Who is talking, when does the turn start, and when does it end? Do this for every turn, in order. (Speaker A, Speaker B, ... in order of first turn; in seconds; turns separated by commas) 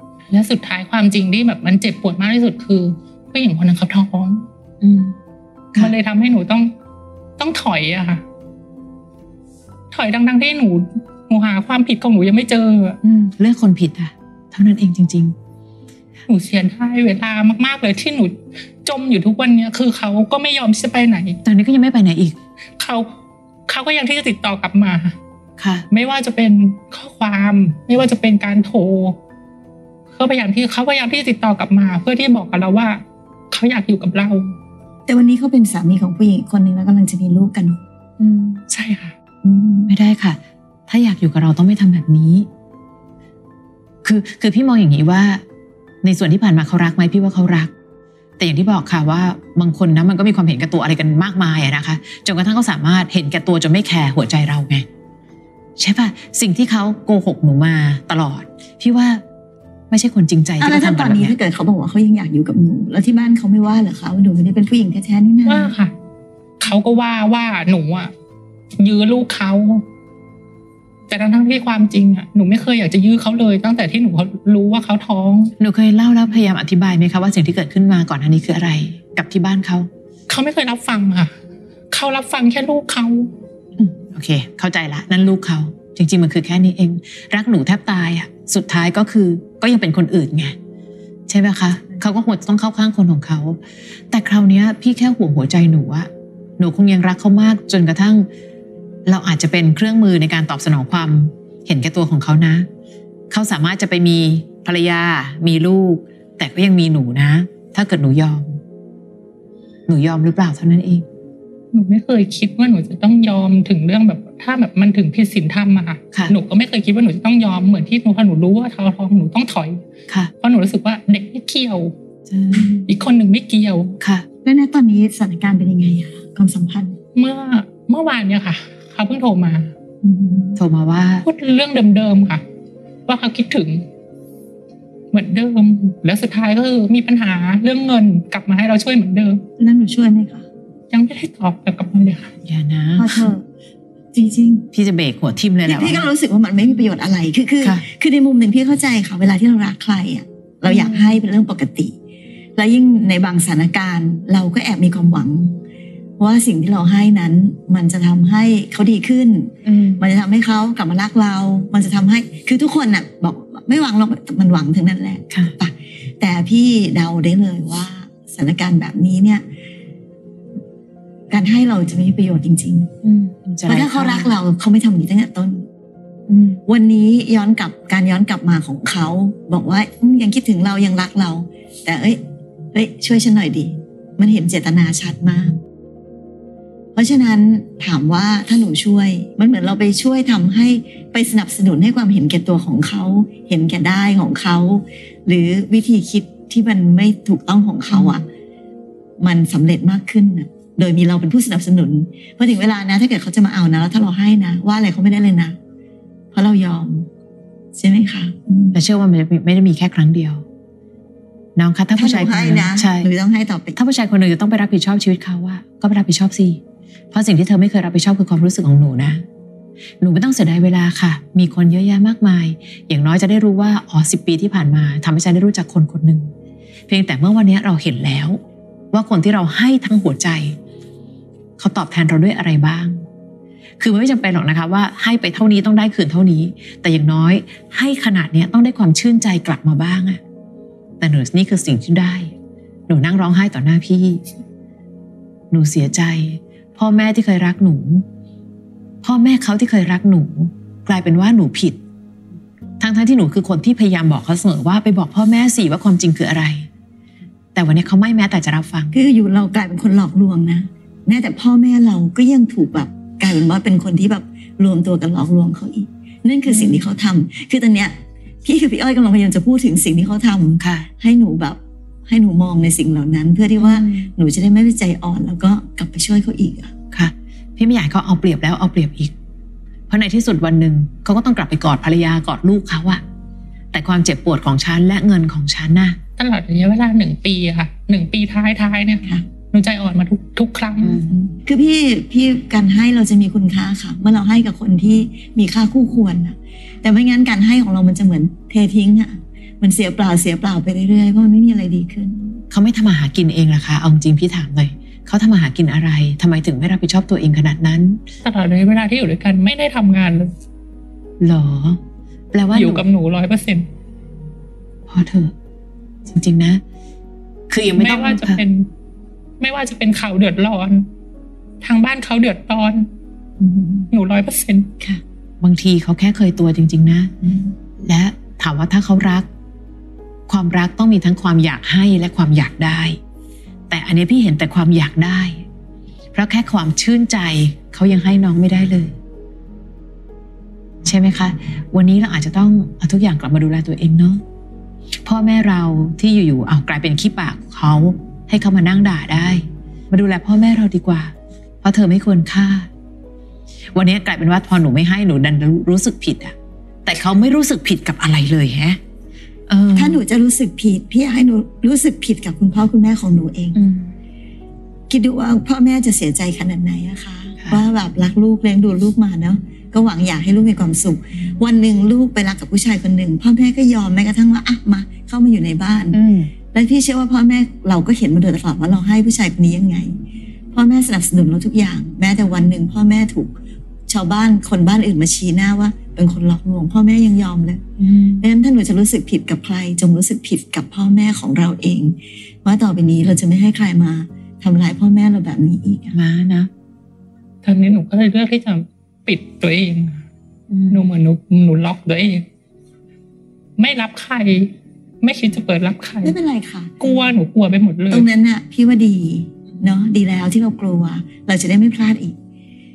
Speaker A: 0.3-4.5, Speaker B: 4.8-5.2, Speaker A: 5.8-6.7, Speaker A: 7.4-8.2, Speaker A: 9.9-13.0, Speaker B: 13.0-15.3, Speaker A: 16.3-21.4, Speaker B: 21.4-22.4, Speaker A: 22.8-23.1, Speaker A: 23.7-25.1, Speaker B: 25.6-25.9, Speaker A: 25.9-29.2, Speaker A: 30.1-34.5, Speaker C: 35.1-37.8, Speaker B: 38.2-38.6, Speaker A: 38.7-39.1, Speaker C: 39.4-39.9, Speaker B: 39.9-42.5, Speaker B: 44.0-45.4, Speaker B: 46.0-47.7, Speaker B: 48.4-54.8, Speaker B: 55.8-59.2, Speaker B: 59.9-61.4, Speaker C: 60.6-65.7, Speaker A: 65.5-65.9, Speaker A: 66.6-68.1, Speaker A: 68.8-69.8, Speaker A: 71.1-75.5, Speaker B: 75.6-79.9, Speaker A: 80.3-81.3, Speaker A: 81.9-83.3, Speaker B: 83.8-90.5, Speaker B: 91.3-93.6, Speaker B: 94.1-98.3, Speaker B: 99.0-102.7, Speaker B: 103.3-108.6, Speaker B: 109.9-111.0, Speaker A: 111.7-119.8, Speaker A: 120.4-121.9, Speaker B: 122.3-122.8, Speaker A: 122.8-124.0, Speaker B: 124.0-124.2, Speaker C: 124.4-127.0, Speaker A: 127.1-129.7, Speaker C: 130.0-130.6, Speaker B: 130.6-131.2, Speaker A: 131.2-132.4, Speaker A: 133.1-133.8, Speaker A: 135.1-139.4, Speaker C: 139.6-140.4, Speaker A: 140.9-142.3, Speaker B: 142.4-143.3, Speaker C: 143.0-143.4, Speaker C: 144.1-144.7, Speaker B: 144.7-146.1, Speaker C: 145.7-151.9, Speaker B: 150.7-151.2, Speaker C: 152.6-155.6, Speaker C: 156.2-169.4, Speaker B: 159.6-160.0, Speaker C: 171.3-172.9, Speaker B: 173.0-174.3, Speaker C: 173.7-175.7, Speaker B: 176.3-176.6, Speaker C: 176.7-182.2, Speaker C: 182.7-185.6, Speaker C: 186.9-198.2, Speaker B: 197.9-198.2, Speaker C: 199.2-205.6, Speaker C: 206.3-207.1, Speaker C: 207.7-208.8, Speaker B: 208.7-210.4, Speaker B: 211.6-213.1, Speaker C: 211.9-213.7, Speaker B: 213.7-216.6, Speaker B: 217.1-219.2, Speaker B: 220.0-226.3, Speaker B: 226.9-228.4, Speaker B: 228.9-230.6, Speaker B: 231.6-233.0, Speaker B: 233.8-240.2, Speaker B: 241.0-242.3, Speaker B: 242.9-244.2, Speaker B: 245.5-248.0, Speaker B: 249.0-251.8, Speaker B: 252.8-256.7, Speaker B: 257.5-258.9, Speaker C: 258.9-276.7, Speaker B: 266.4-266.8, Speaker B: 270.6-270.9, Speaker B: 273.6-274.1, Speaker B: 276.9-279.1, Speaker B: 279.9-283.0, Speaker B: 283.7-286.0, Speaker A: 286.2-291.0, Speaker B: 290.8-291.1, Speaker C: 291.1-302.4, Speaker B: 302.5-308.0, Speaker A: 308.2-310.3, Speaker B: 311.2-311.8, Speaker B: 312.3-312.8, Speaker A: 312.5-313.7, Speaker B: 314.9-315.3, Speaker B: 316.1-316.6, Speaker B: 317.5-318.4, Speaker A: 317.8-318.7, Speaker A: 319.4-320.9, Speaker A: 321.6-322.9, Speaker C: 323.4-323.9, Speaker A: 323.9-324.7, Speaker B: 325.4-327.1, Speaker C: 327.2-327.5, Speaker B: 327.8-329.2, Speaker B: 330.3-333.0, Speaker B: 333.7-335.4, Speaker B: 336.1-338.9, Speaker B: 340.8-344.2, Speaker B: 345.0-352.7, Speaker B: 353.7-356.3, Speaker B: 356.8-358.8, Speaker B: 359.5-360.0, Speaker C: 359.7-363.6, Speaker B: 363.5-363.9, Speaker C: 364.9-376.0, Speaker B: 375.9-376.3, Speaker C: 376.5-379.9, Speaker C: 380.5-383.3, Speaker C: 383.9-387.6, Speaker B: 387.8-388.2, Speaker C: 388.2-396.0, Speaker B: 395.9-396.5, Speaker A: 397.4-400.0, Speaker B: 400.5-400.9, Speaker A: 400.7-402.2, Speaker A: 403.6-406.1, Speaker C: 406.0-406.8, Speaker A: 406.8-408.1, Speaker C: 407.9-412.1